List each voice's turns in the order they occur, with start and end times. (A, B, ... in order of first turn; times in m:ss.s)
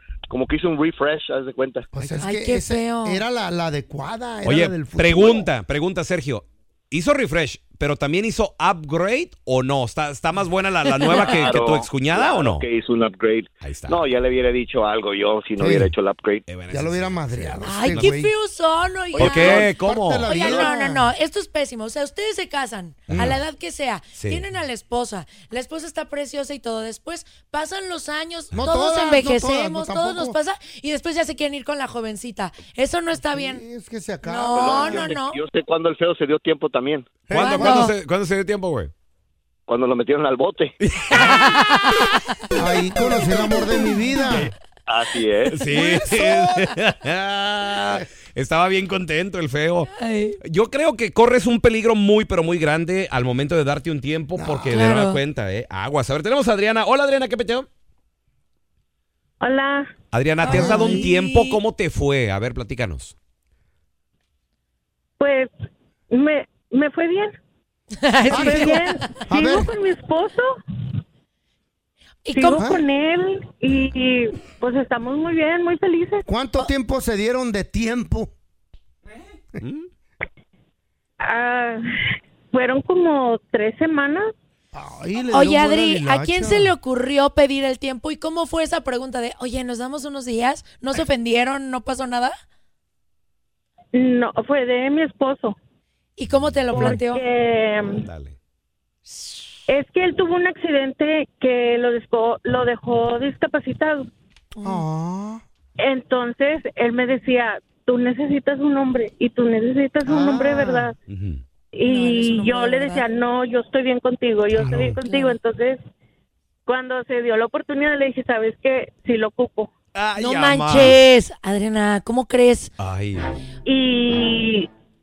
0:00.3-0:01.9 A
0:01.9-0:05.5 B
0:02.2-0:03.2 C
0:04.4-0:12.6 D
0:10.9-0:11.3 C
0:11.2-0:16.4 A
0:13.6-0:14.0 D
0:15.6-0:15.9 B
0:16.5-0:18.1 D
0:16.7-0:18.3 B
0:17.6-0:19.7 C
0:19.1-0:21.1 B
0:19.2-0:20.4 D
0:20.2-0:33.6 C
0:23.1-0:23.4 D
0:24.2-0:24.4 D
0:28.5-0:30.4 B
0:33.2-0:35.2 B
0:34.2-0:35.4 C
0:34.6-0:37.1 A
0:37.3-0:37.9 B
0:37.3-0:38.9 D
0:37.3-0:37.9 C
0:39.7-0:40.7 A
0:40.8-0:41.4 D
0:41.2-0:41.9 C
0:42.5-0:44.5 B
0:43.2-0:43.9 C
0:44.9-0:45.6 A
0:45.5-0:49.9 D
0:45.8-0:46.7 B
0:50.0-0:50.4 C
0:50.4-0:57.7 D
0:54.4-0:54.9 B
0:54.7-0:55.2 C
0:59.4-0:59.9 E
1:00.1-1:03.1 D
1:00.4-1:01.6 C
1:00.4-1:01.1 B
1:05.2-1:05.5 E
1:06.1-1:07.4 E
1:08.0-1:09.1 C
1:08.3-1:10.6 E
1:08.3-1:09.7 B
1:12.2-1:12.7 C
1:12.3-1:16.2 E
1:16.3-1:18.3 B
1:19.6-1:19.9 D
1:21.2-1:21.8 E
1:22.5-1:24.3 E
1:24.7-1:26.7 B
1:25.3-1:32.4 C
1:33.9-1:35.6 E
1:36.2-1:37.2 C
1:36.7-1:38.0 E
1:36.7-1:37.0 B
1:37.8-1:38.4 D
1:39.7-1:44.1 E
1:44.6-1:45.4 B
1:45.8-1:51.0 E
1:50.1-1:50.7 B
1:50.3-1:50.9 C
1:51.1-1:51.4 D
1:51.7-1:55.8 E
1:51.9-1:53.0 C
1:54.6-1:55.0 B
1:55.0-1:55.4 C
1:56.7-1:59.7 E
2:00.0-2:01.0 D
2:00.2-2:02.7 C
2:02.8-2:03.3 D
2:03.6-2:04.7 E